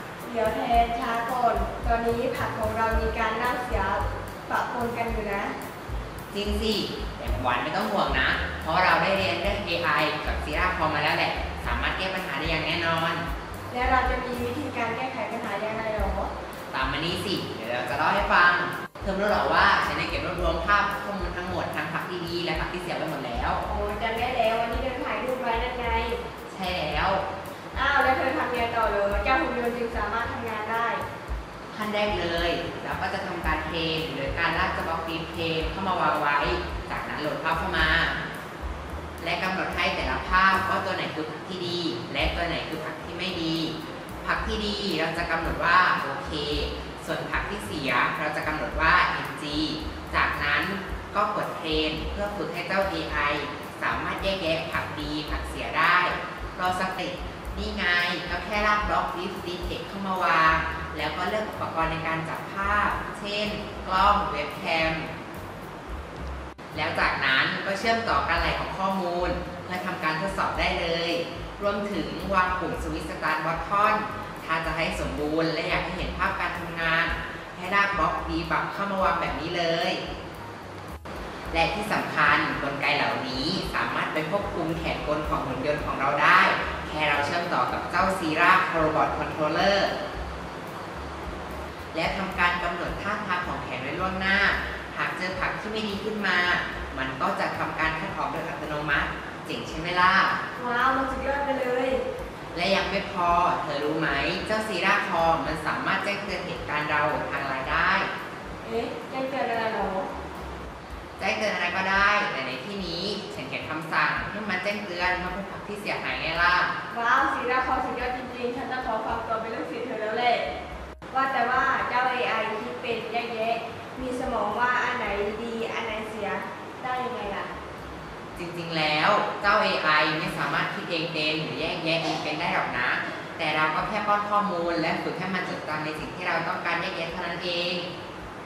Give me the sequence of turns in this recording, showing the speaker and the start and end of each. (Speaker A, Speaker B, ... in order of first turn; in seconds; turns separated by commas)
Speaker A: 0.2-5.5, Speaker B: 6.3-13.2, Speaker A: 13.7-16.3, Speaker B: 16.7-23.6, Speaker A: 23.6-26.2, Speaker B: 26.5-27.2, Speaker A: 27.7-31.0, Speaker B: 31.7-38.2, Speaker B: 39.2-65.1, Speaker B: 66.7-80.0, Speaker B: 81.5-89.9, Speaker B: 91.9-100.4, Speaker A: 100.5-102.0, Speaker B: 102.5-108.1, Speaker A: 108.6-110.1, Speaker B: 111.2-116.7, Speaker A: 116.9-120.5, Speaker A: 121.1-127.5, Speaker B: 128.3-137.9